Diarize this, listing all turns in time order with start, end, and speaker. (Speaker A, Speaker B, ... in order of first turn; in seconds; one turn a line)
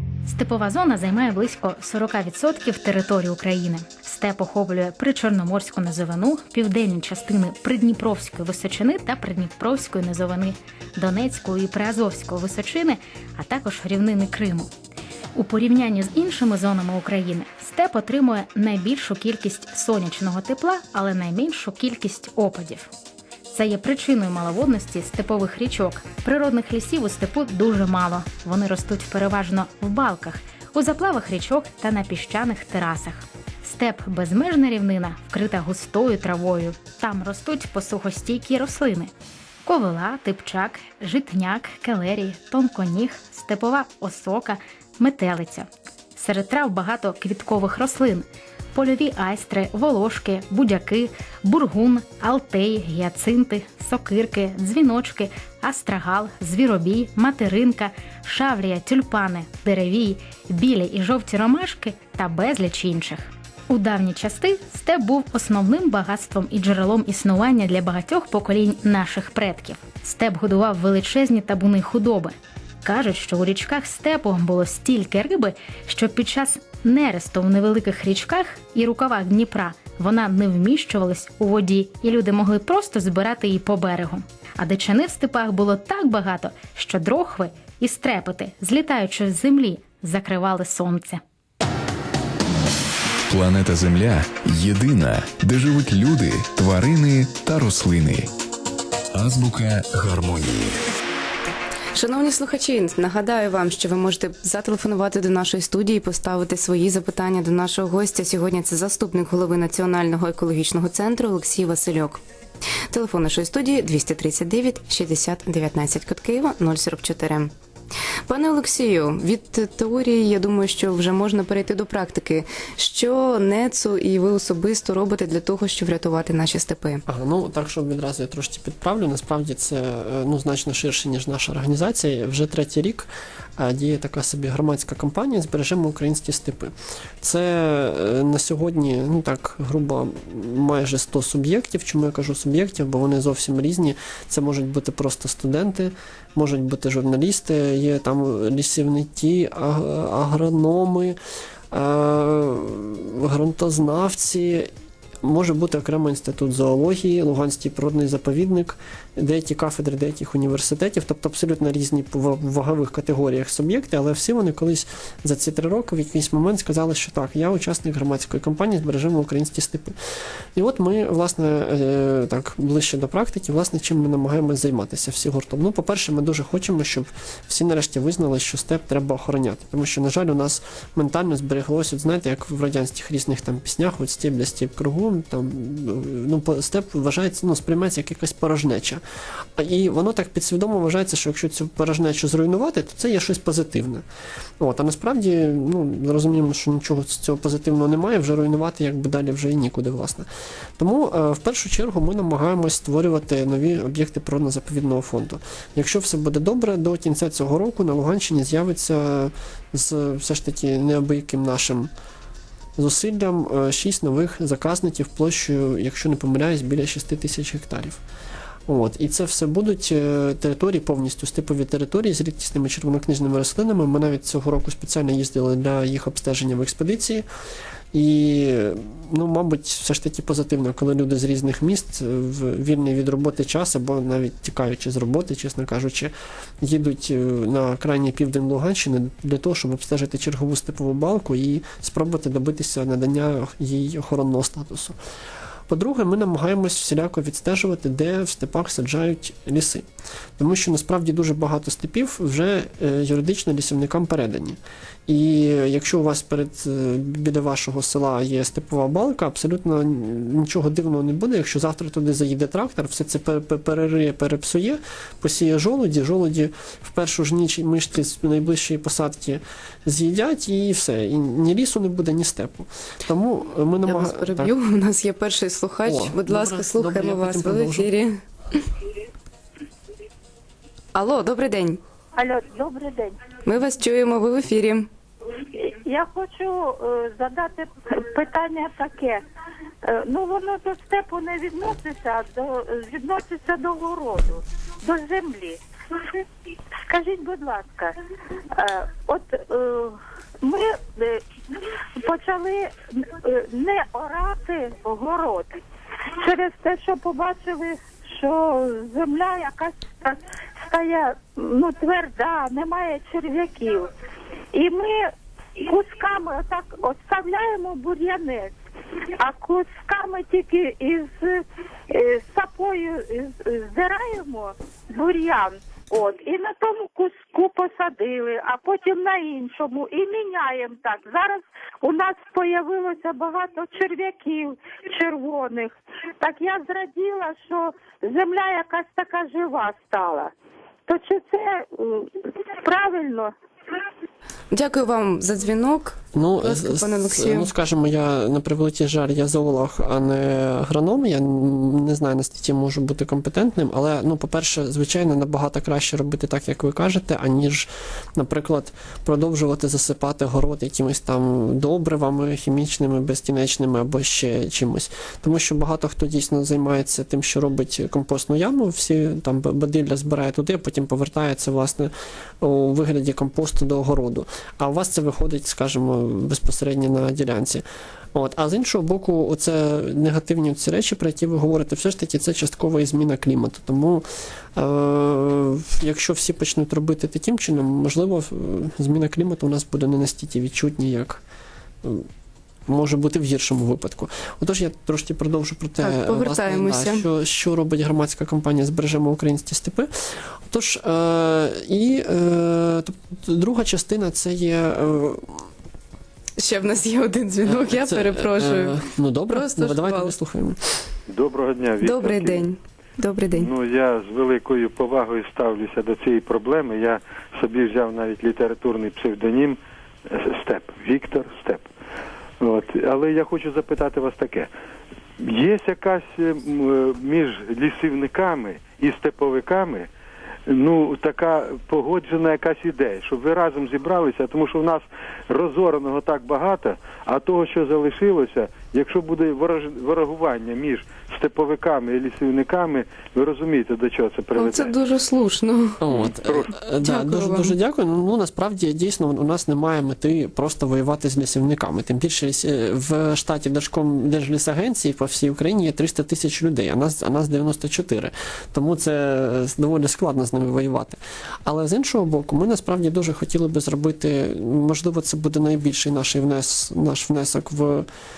Speaker A: 0.2-14.7
Speaker A: 15.3-22.9
Speaker A: 23.5-39.1
Speaker A: 39.6-91.2
Speaker B: 93.3-98.3
Speaker B: 99.1-100.8
Speaker C: 101.9-112.2
Speaker C: 112.9-117.5
Speaker C: 118.3-127.0
Speaker D: 127.1-151.2
Speaker D: 151.7-154.7
Speaker D: 155.2-169.9
Speaker D: 170.6-189.0
Speaker D: 189.6-194.0
Speaker D: 194.6-200.2
Speaker D: 200.8-211.9
Speaker D: 212.8-218.0
Speaker D: 218.7-227.2
Speaker D: 227.9-245.0
Speaker D: 245.7-249.8
Speaker D: 250.4-274.5
Speaker C: 273.9-278.6
Speaker D: 275.8-277.9
Speaker C: 280.9-281.8
Speaker E: 282.1-283.1
Speaker C: 283.4-284.9
Speaker E: 285.4-289.2
Speaker E: 289.8-296.1
Speaker E: 296.8-297.9
Speaker E: 298.5-305.5
Speaker E: 306.2-313.9
Speaker E: 314.5-315.1
Speaker E: 315.6-318.5
Speaker E: 319.2-340.3
Speaker E: 340.9-343.3
Speaker C: 344.5-347.5
Speaker D: 346.1-384.0
Speaker D: 384.6-391.2
Speaker D: 392.7-399.9
Speaker C: 395.8-397.0
Speaker D: 400.5-405.5
Speaker C: 406.4-410.1
Speaker D: 407.4-410.8
Speaker F: 411.1-412.5
Speaker C: 411.8-413.5
Speaker F: 413.3-419.6
Speaker F: 420.1-421.6
Speaker F: 422.4-424.5
Speaker F: 425.2-429.9
Speaker F: 430.5-444.7
Speaker C: 444.3-445.8
Speaker D: 445.8-467.9
Speaker F: 445.9-446.5
Speaker C: 446.8-447.5